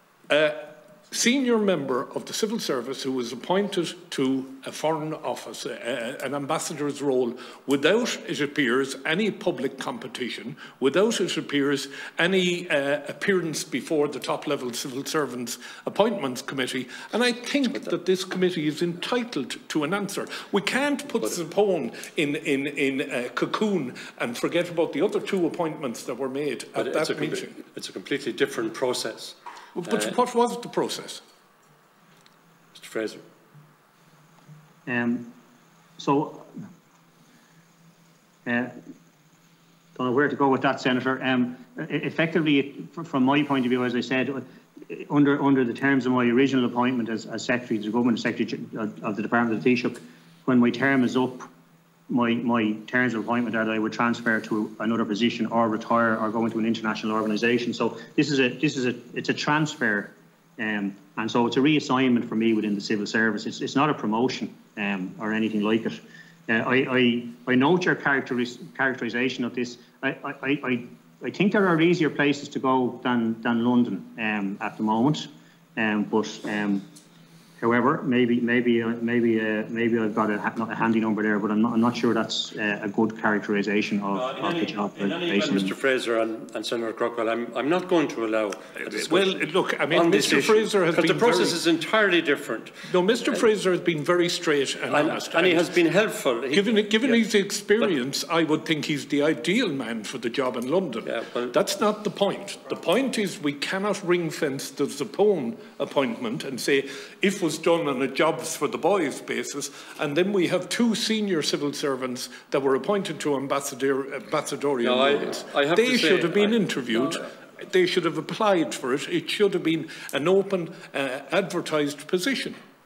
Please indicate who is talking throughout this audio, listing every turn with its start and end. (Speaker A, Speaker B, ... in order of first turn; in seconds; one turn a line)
Speaker A: 0.3-27.5
Speaker B: 26.8-29.4
Speaker A: 29.8-31.2
Speaker B: 32.7-33.2
Speaker C: 34.9-35.3
Speaker C: 36.0-36.6
Speaker C: 38.5-38.8
Speaker C: 40.0-51.5
Speaker C: 52.1-76.8
Speaker C: 77.6-85.7
Speaker B: 84.1-92.7
Speaker A: 88.8-91.6
Speaker A: 92.9-95.7
Speaker B: 94.9-97.2
Speaker A: 96.5-122.6
Speaker B: 101.0-101.5
Speaker B: 114.8-116.8